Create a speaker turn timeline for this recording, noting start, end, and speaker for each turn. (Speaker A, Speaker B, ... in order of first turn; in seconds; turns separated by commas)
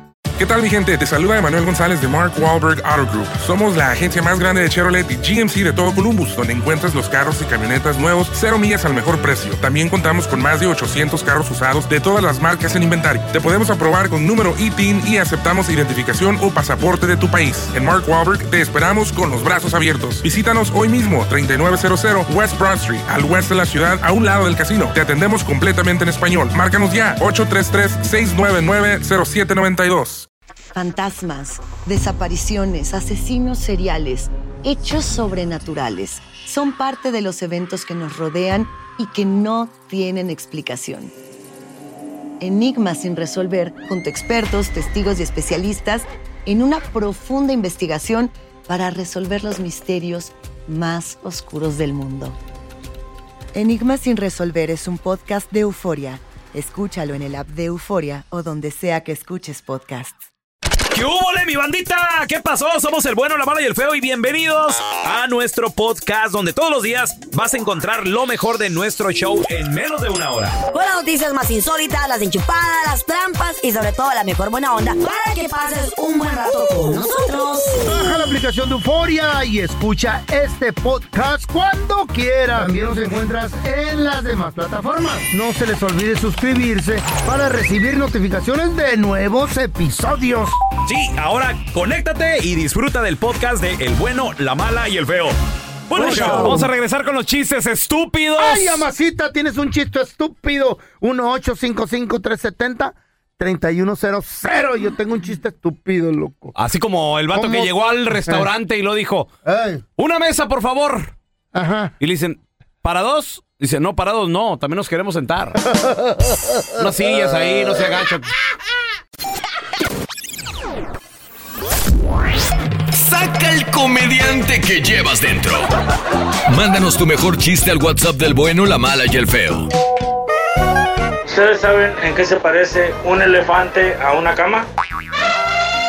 Speaker A: 0.4-30.3, Speaker B: 30.7-41.1, Speaker B: 42.4-52.4, Speaker B: 53.5-60.2, Speaker C: 60.9-70.6, Speaker D: 70.7-78.0, Speaker E: 77.8-90.6, Speaker C: 90.9-95.3, Speaker C: 95.9-98.9, Speaker E: 95.9-96.7, Speaker E: 98.4-106.5, Speaker C: 106.5-109.3, Speaker E: 107.3-107.7, Speaker E: 109.5-109.8, Speaker C: 110.0-111.1, Speaker E: 111.5-111.9, Speaker C: 112.0-115.6, Speaker E: 115.7-116.3, Speaker C: 116.8-118.3, Speaker F: 122.9-125.7, Speaker F: 126.5-129.7, Speaker G: 131.3-134.7